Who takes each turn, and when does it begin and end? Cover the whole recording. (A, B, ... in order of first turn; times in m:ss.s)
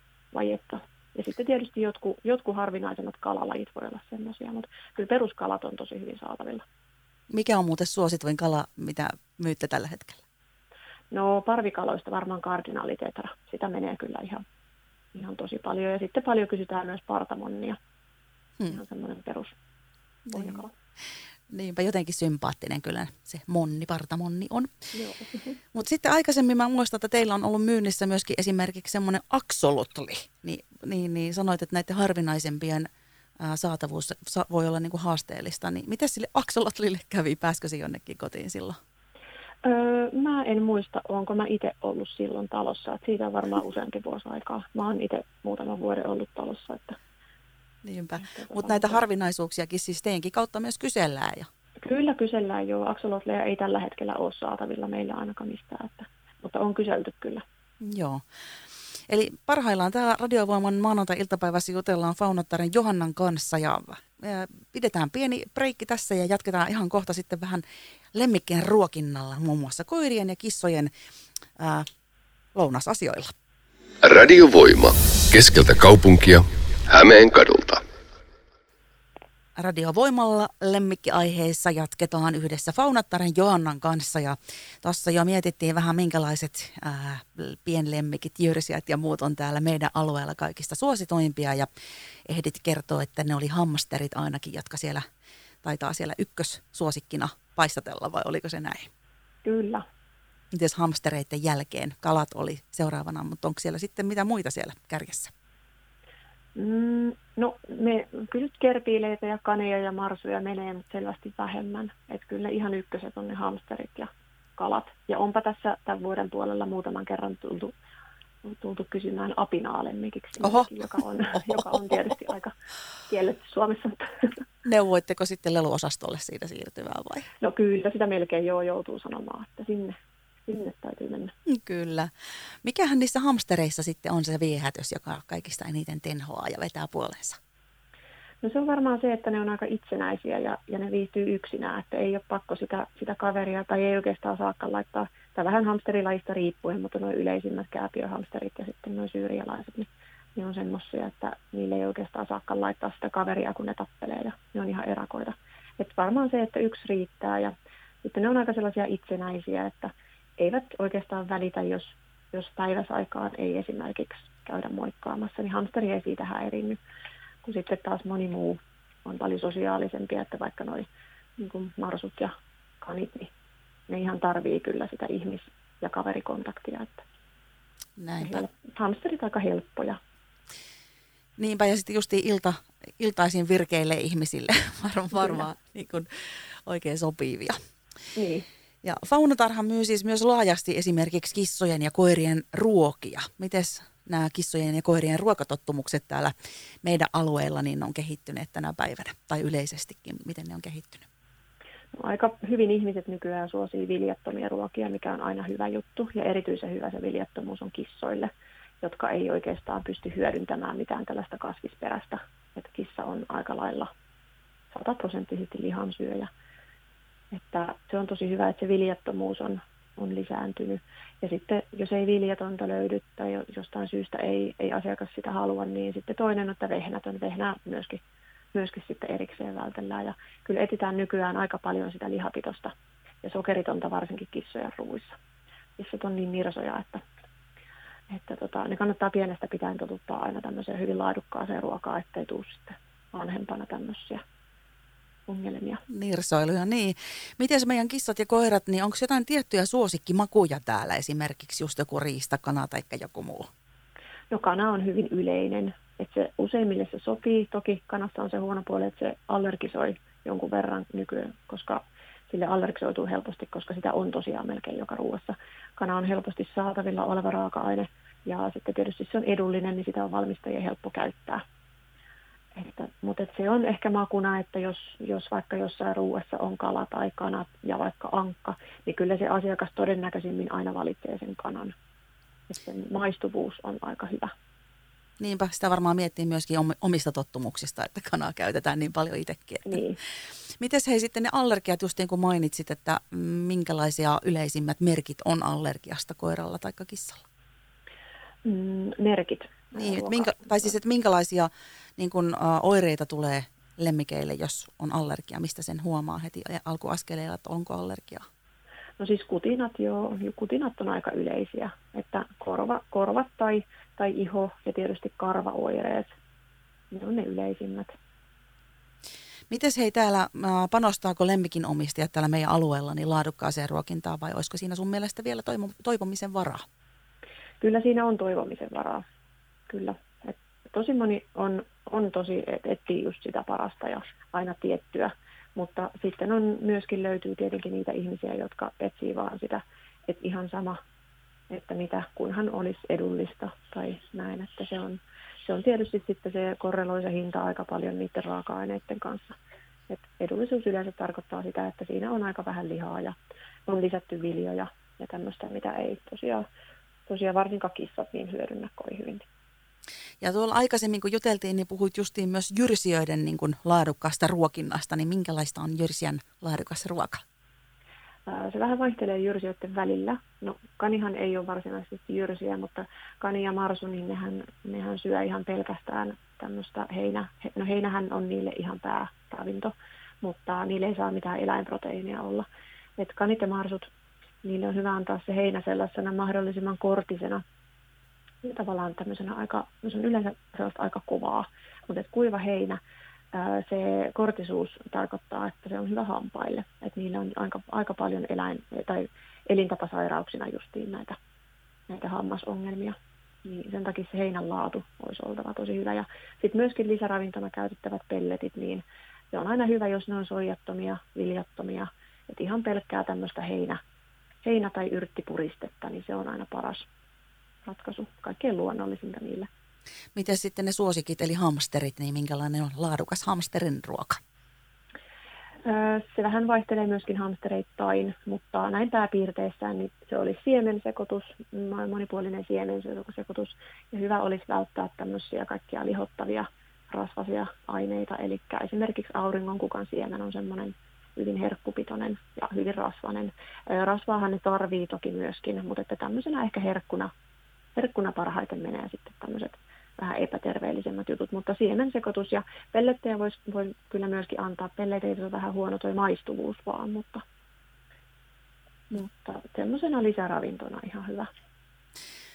0:00.3-0:06.6 A
0:07.3-0:10.2 B
0:11.1-0:14.4 A
0:15.2-0:17.8 A
0:18.7-0:19.6 A
0:20.3-0:20.7 A
0:20.3-0:20.6 B
0:21.5-0:24.7 B
0:24.9-0:25.6 A
0:25.7-0:32.9 B
0:33.4-0:38.8 B
0:39.6-0:47.0 A
0:47.8-0:51.5 B
0:48.2-0:49.0 A
0:51.8-0:57.4 A
0:57.8-0:58.2 B
0:59.1-1:10.9 B
1:11.6-1:11.9 B
1:12.6-1:13.3 B
1:14.0-1:17.8 C
1:19.6-1:31.7 B
1:32.3-1:35.0 B
1:35.6-1:38.9 B
1:39.4-1:39.8 A
1:40.5-1:45.3 B
1:46.6-1:57.7 A
1:58.4-2:02.5 A
2:00.4-2:00.7 B
2:01.3-2:02.1 B
2:03.1-2:04.4 A
2:04.6-2:07.3 B
2:07.4-2:09.9 A
2:10.5-2:11.3 A
2:11.5-2:12.1 B
2:12.6-2:17.4 B
2:18.4-2:37.5 A
2:38.0-2:46.8 A
2:47.4-2:50.9 A
2:51.4-2:53.3 A
2:53.9-2:57.0 A
2:58.0-2:58.4 B
2:58.2-3:00.0 A
3:01.4-3:07.6 B
3:05.1-3:05.5 A
3:08.2-3:08.5 A
3:08.8-3:16.3 B
3:16.8-3:21.1 B
3:22.0-3:28.3 A
3:28.8-3:33.9 A
3:34.7-3:36.3 A
3:37.3-3:48.0 A
3:48.5-3:55.2 A
3:55.8-3:57.0 A
3:58.1-4:04.2 A
4:05.3-4:05.8 A
4:05.9-4:13.5 B
4:14.3-4:31.4 A
4:32.6-4:41.7 A
4:42.5-4:44.3 A
4:45.2-4:49.8 B
4:49.6-4:50.0 A
4:50.6-4:57.2 B
4:58.4-5:00.7 A
4:59.8-5:08.2 B
5:09.0-5:16.1 A
5:16.9-5:17.9 A
5:19.5-5:26.6 B
5:27.6-5:29.0 A
5:29.7-5:40.8 A
5:41.5-5:49.4 A
5:49.9-5:53.2 A
5:53.7-5:56.4 A
5:57.1-5:59.3 A
6:00.2-6:07.2 B
6:08.3-6:22.5 A
6:23.0-6:23.9 A
6:24.4-6:27.4 A
6:28.4-6:32.8 A
6:33.3-6:41.2 A
6:41.9-6:53.8 A
6:54.4-6:56.9 A
6:57.6-6:59.5 A
7:00.2-7:04.2 B
7:05.6-7:27.1 A
7:27.8-7:37.2 A
7:38.9-7:41.3 A